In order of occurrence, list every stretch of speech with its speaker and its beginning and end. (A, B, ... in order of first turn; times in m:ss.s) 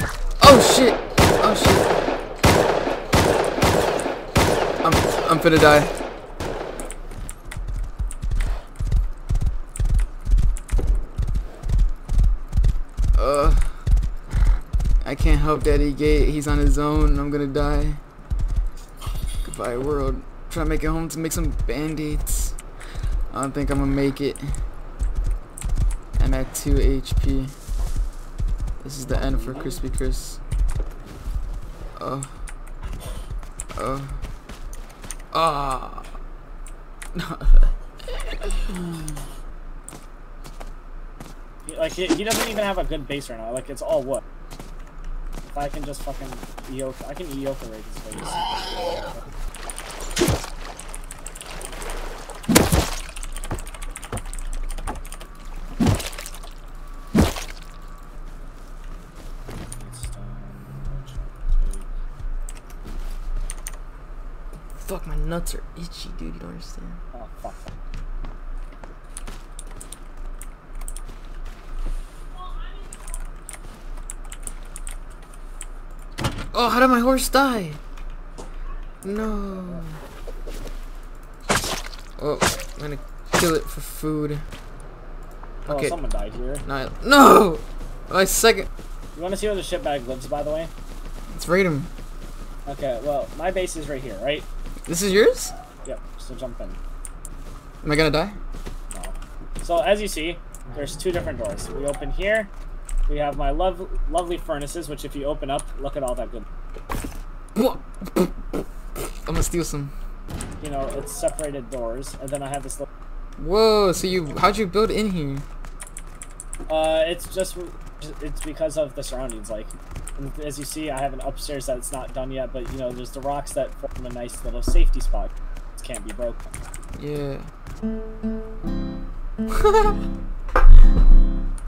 0:00.4-0:01.9 A
0:04.8-0:05.9 A
0:13.2-0:13.8 A
0:15.0-0:18.0 A
0:19.4-0:22.6 A
0:23.3-0:24.5 A
0:26.2-0:27.5 A
0:28.8-0:30.4 A
0:29.2-0:29.8 B
0:32.0-0:32.3 A
0:33.8-0:34.2 A
0:35.3-0:36.1 A
0:37.2-0:37.7 A
0:38.5-0:39.1 A
0:41.7-0:44.2 B
0:45.4-0:49.2 B
0:59.8-1:01.9 B
1:04.8-1:07.0 A
1:07.1-1:07.7 B
1:16.5-1:17.8 A
1:19.0-1:19.9 A
1:19.4-1:19.8 B
1:22.2-1:24.4 A
1:25.7-1:26.0 A
1:25.7-1:26.6 B
1:26.6-1:28.7 A
1:29.2-1:30.7 B
1:31.3-1:31.9 A
1:32.7-1:34.5 B
1:34.9-1:35.5 A
1:35.8-1:36.8 B
1:37.8-1:38.4 A
1:38.9-1:42.5 B
1:43.1-1:46.5 B
1:47.6-1:48.4 A
1:49.2-1:49.9 A
1:50.6-1:52.9 B
1:53.4-1:55.4 A
1:56.7-2:06.5 B
2:07.0-2:07.5 A
2:09.6-2:10.0 A